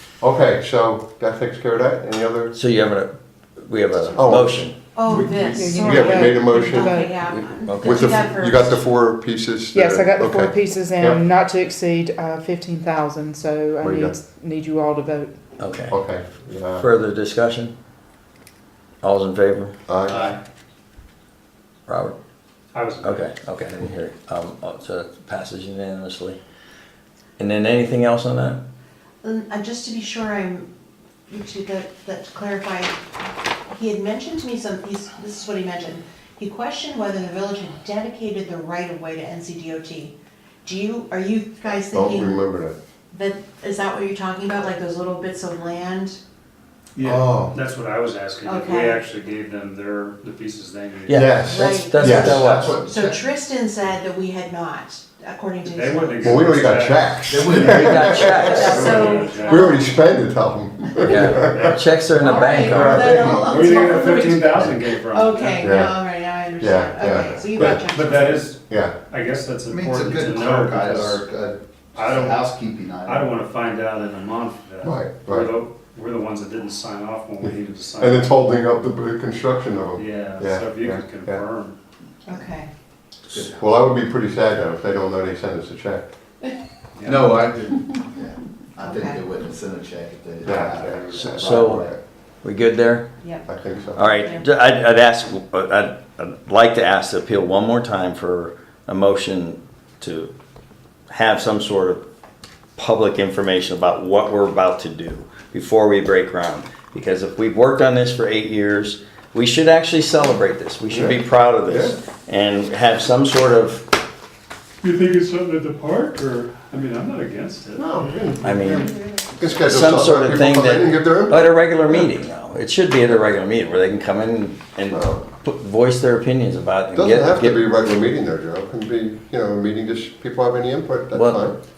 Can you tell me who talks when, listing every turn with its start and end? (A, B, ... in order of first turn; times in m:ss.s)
0:00.2-0:02.6 A
0:02.5-0:04.8 B
0:04.2-0:07.0 A
0:05.0-0:08.8 C
0:05.2-0:07.2 D
0:07.2-0:08.2 B
0:07.8-0:11.2 A
0:09.7-0:15.4 D
0:13.8-0:14.2 A
0:15.6-0:16.0 B
0:15.9-0:16.9 A
0:16.8-0:17.7 B
0:19.0-0:19.8 B
0:19.9-0:20.3 A
0:20.1-0:20.4 E
0:21.9-0:22.2 B
0:22.7-0:23.3 E
0:23.0-0:26.4 B
0:27.4-0:28.6 B
0:29.2-0:30.7 C
0:31.3-0:33.0 C
0:33.7-0:42.4 C
0:41.9-0:42.8 A
0:43.1-0:46.2 C
0:47.0-0:51.4 E
0:47.0-0:47.6 A
0:48.4-0:49.0 C
0:51.1-0:52.8 B
0:51.1-0:52.5 A
0:51.5-0:56.4 C
0:52.0-0:53.2 F
0:55.7-0:59.8 E
0:56.2-1:01.8 A
0:57.3-0:59.2 F
0:57.6-0:59.0 B
0:58.3-0:59.9 C
1:01.0-1:03.4 B
1:01.4-1:01.8 E
1:02.2-1:08.5 C
1:02.5-1:03.9 F
1:02.7-1:03.3 A
1:03.4-1:05.7 E
1:05.6-1:06.0 A
1:06.6-1:07.9 A
1:07.6-1:11.3 E
1:08.7-1:09.0 A
1:09.7-1:13.3 F
1:12.0-1:12.5 E
1:13.0-1:18.4 E
1:14.8-1:15.5 A
1:18.0-1:21.4 A
1:20.0-1:21.8 E
1:22.3-1:22.7 C
1:23.3-1:23.9 F
1:23.3-1:26.1 A
1:27.0-1:27.4 E
1:27.0-1:32.0 F
1:28.8-1:29.2 C
1:30.4-1:31.3 E
1:30.4-1:32.0 A
1:31.2-1:33.1 B
1:33.2-1:33.5 C
1:33.5-1:34.1 A
1:34.0-1:40.3 B
1:34.1-1:34.5 C
1:41.1-1:42.0 B
1:42.8-1:53.9 B
1:50.9-1:52.0 A
1:54.8-1:59.1 E
1:57.8-1:58.5 A
1:58.4-1:58.9 B
1:59.3-2:02.1 A
1:59.7-2:07.6 B
2:04.9-2:05.2 A
2:06.9-2:11.6 A
2:11.1-2:11.5 B